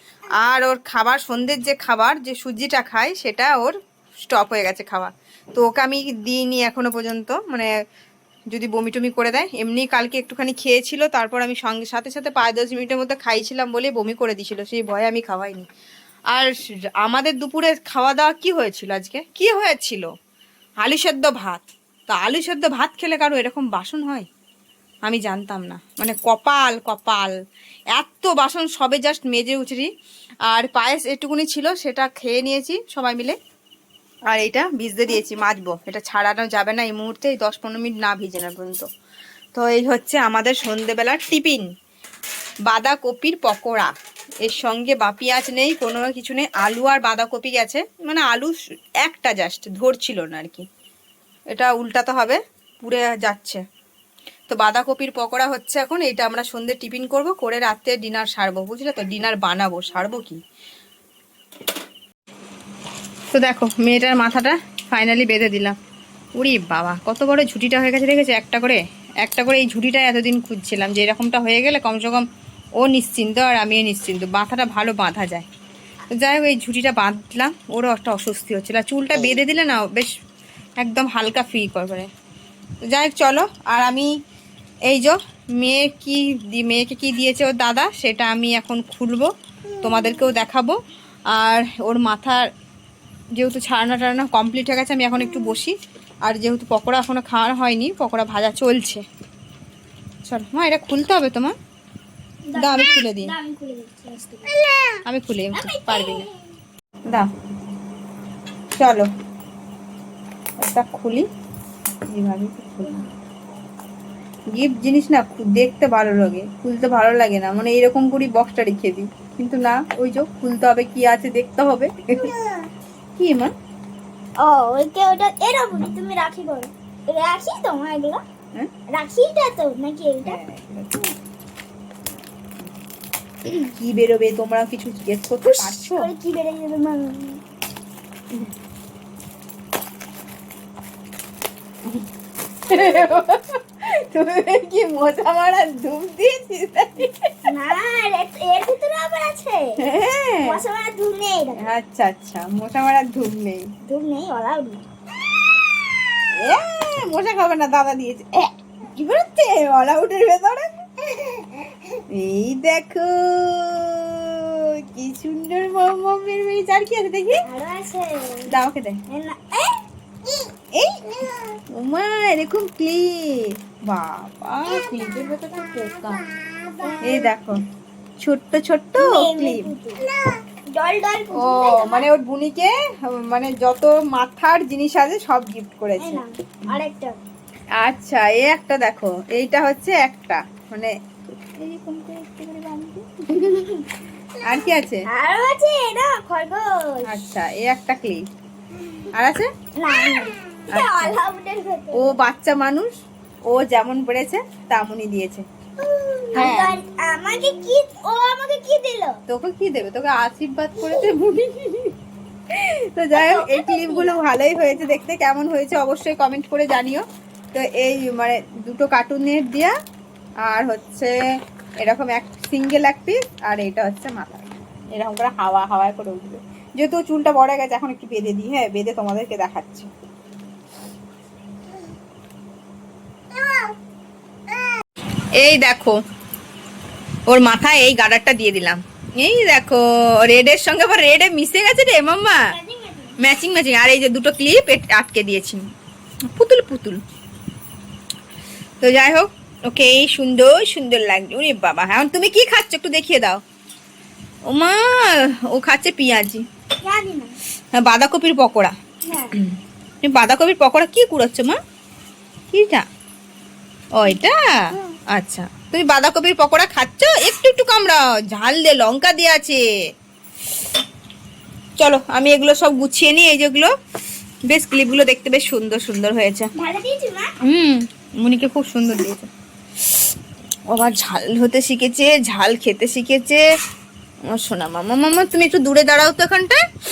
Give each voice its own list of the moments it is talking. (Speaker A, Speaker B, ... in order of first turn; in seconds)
Speaker A: 0.4-3.8, 4.3-7.7, 8.5-15.7, 16.3-20.1, 20.8-24.3, 25.1-27.3, 28.0-29.9, 30.5-33.4, 34.3-38.9, 39.5-41.7, 42.7-43.9, 44.4-50.7, 51.5-53.6, 54.5-60.4, 63.3-65.8, 66.4-72.2, 72.8-75.5, 76.1-80.1, 80.8-82.1, 82.9-84.1, 84.9-90.8, 91.3-92.5, 93.4-99.0, 100.2-101.6, 102.5-103.3, 105.1-106.3, 108.8-109.1, 110.6-111.3, 112.1-113.0, 114.5-122.3, 123.2-123.5, 130.2-131.1, 133.7-136.1, 142.7-147.3, 149.8-150.6, 151.6-153.7, 156.3-161.4, 162.1-167.4, 168.5-169.0, 170.7-171.1, 171.7-176.2, 177.0-177.6, 178.2-179.7, 181.3-186.2, 187.8-193.1, 194.4-195.1, 197.1-198.2, 199.1-199.5, 200.7-201.2, 201.9-202.9, 203.5-205.4, 206.3-206.8, 209.3-211.9, 212.5-219.8, 220.5-221.2, 221.8-229.9, 235.4-236.0, 237.3-242.6, 243.2-245.7, 246.3-247.0, 248.8-253.4, 254.5-256.4, 257.7-258.8, 260.0-261.6, 262.5-262.9, 263.9-269.7, 271.8-273.7, 274.5-276.5, 277.4-279.3, 280.7-283.5, 284.3-286.6
Speaker B: 102.5-105.0, 105.5-106.3, 122.2-122.7, 124.4-128.2, 128.9-130.4, 135.5-137.4, 142.7-143.0, 147.4-149.8, 150.4-151.7, 153.8-154.9, 167.4-168.5, 169.1-169.8, 176.7-177.3, 179.0-182.1, 186.0-187.2, 193.3-193.9, 194.5-197.2, 199.8-202.2, 205.8-209.2, 213.1-214.2, 242.5-243.2, 256.8-257.4, 259.0-259.4, 276.6-277.3